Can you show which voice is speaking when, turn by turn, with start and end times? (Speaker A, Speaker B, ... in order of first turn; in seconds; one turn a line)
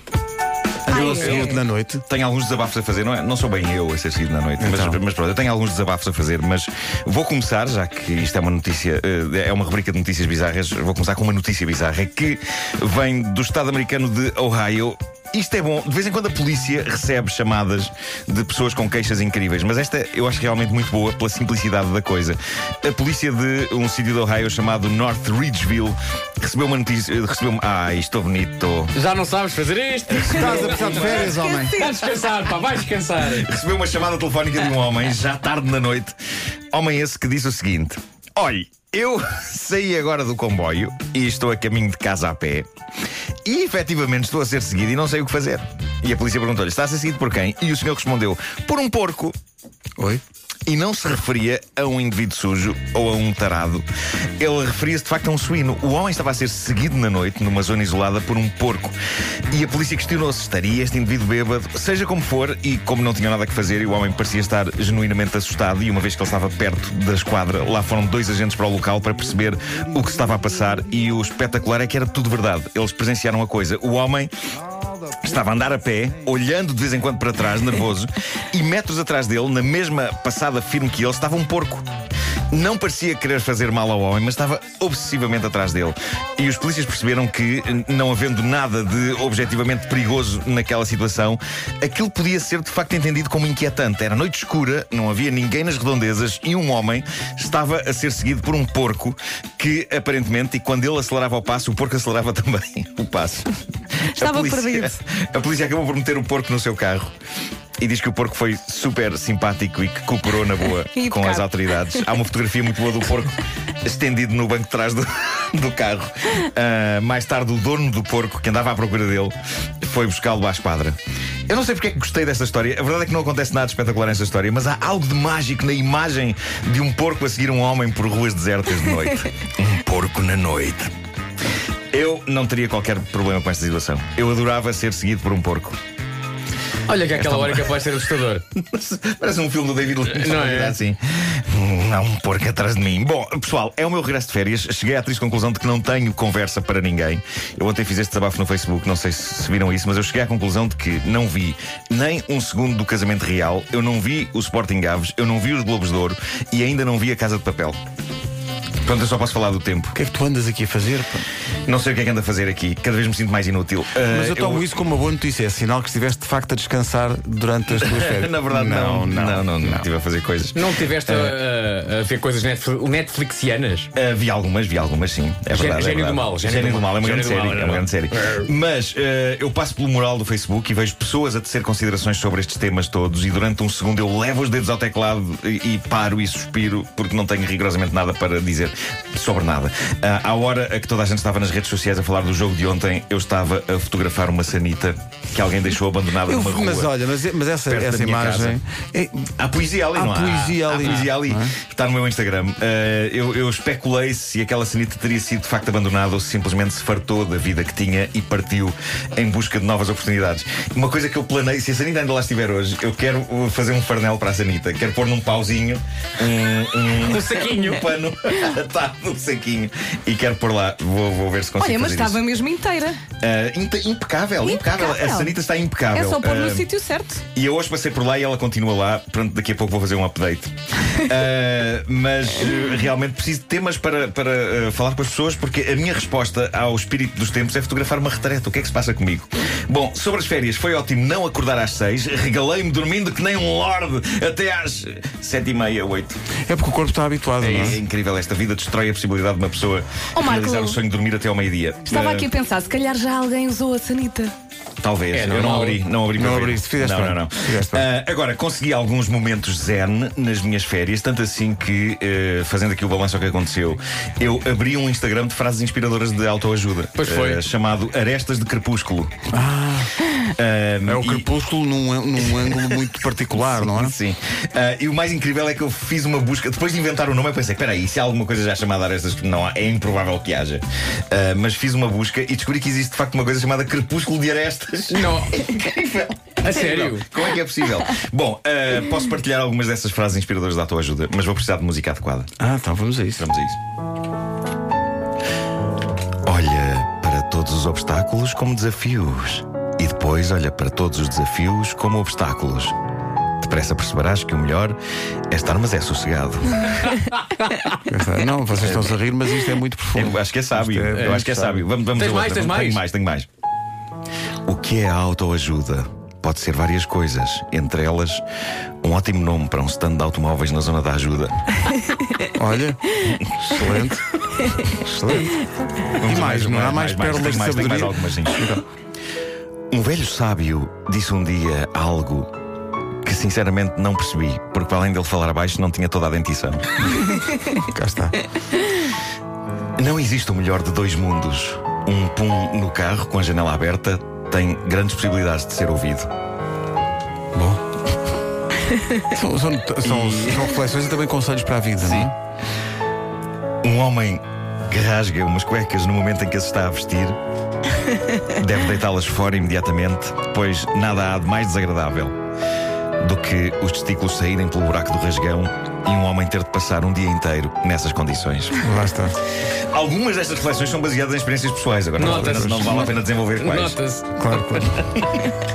Speaker A: 0.9-2.0
Speaker B: 0.9-1.5
Speaker C: 1.0-1.3
Speaker D: 1.0-28.9
Speaker A: 4.6-5.0
Speaker C: 28.9-33.5
Speaker A: 30.1-31.8
Speaker D: 30.2-31.5
Speaker B: 31.4-31.7
Speaker D: 33.2-36.1
Speaker D: 36.7-42.6
Speaker D: 43.5-49.4
Speaker D: 50.7-53.8
Speaker D: 54.4-58.9
Speaker D: 59.5-74.3
Speaker D: 75.2-81.8
Speaker D: 82.5-103.5
Speaker D: 104.1-107.1
Speaker B: 104.1-105.0
Speaker D: 107.8-121.0
Speaker B: 110.9-112.0
Speaker D: 121.5-130.9
Speaker D: 131.9-135.8
Speaker C: 136.8-138.4
Speaker D: 137.2-137.9
Speaker D: 138.6-157.8
Speaker C: 140.0-140.8
Speaker D: 158.8-160.0
Speaker A: 159.9-161.3
Speaker D: 161.7-164.6
Speaker A: 164.1-169.8
Speaker D: 167.8-171.3
Speaker C: 170.5-173.9
Speaker D: 173.9-196.9
Speaker C: 175.5-178.5
Speaker A: 196.2-199.3
Speaker D: 197.7-198.6
Speaker D: 199.4-222.2
Speaker A: 199.9-201.6
Speaker C: 200.5-201.1
Speaker C: 216.9-217.9
Speaker B: 221.6-223.0
Speaker D: 223.2-226.7
Speaker B: 224.4-225.3
Speaker B: 225.9-227.2
Speaker D: 227.3-246.2
Speaker A: 246.5-247.8
Speaker C: 247.4-247.8
Speaker D: 247.5-252.3
Speaker B: 250.2-250.8
Speaker B: 251.9-254.3
Speaker D: 254.8-269.1
Speaker C: 255.1-255.8
Speaker A: 256.1-257.9
Speaker C: 266.9-267.4
Speaker A: 269.3-269.9
Speaker D: 270.2-271.3
Speaker A: 270.8-273.9
Speaker D: 272.3-272.8
Speaker D: 273.4-292.3
Speaker C: 284.9-285.4
Speaker C: 286.4-287.1
Speaker A: 292.4-293.3
Speaker D: 293.2-293.6
Speaker D: 296.2-302.7
Speaker D: 303.4-304.8
Speaker D: 305.3-306.9
Speaker C: 306.6-307.8
Speaker A: 307.9-311.7
Speaker D: 308.6-308.9
Speaker D: 309.9-313.3
Speaker C: 310.9-311.3
Speaker C: 311.9-312.8
Speaker D: 314.4-318.2
Speaker D: 318.8-321.4
Speaker A: 322.3-325.4
Speaker D: 325.9-328.5
Speaker A: 326.0-328.6
Speaker D: 329.7-332.3
Speaker D: 333.0-336.7
Speaker A: 337.6-338.1
Speaker D: 339.8-346.1
Speaker A: 347.3-347.6
Speaker A: 349.0-352.1
Speaker D: 349.8-350.5
Speaker D: 351.8-352.1
Speaker D: 353.6-357.2
Speaker D: 358.3-362.1
Speaker D: 363.0-368.6
Speaker A: 368.6-369.2
Speaker D: 369.7-373.8
Speaker C: 372.0-375.0
Speaker A: 372.1-372.9
Speaker A: 374.2-374.8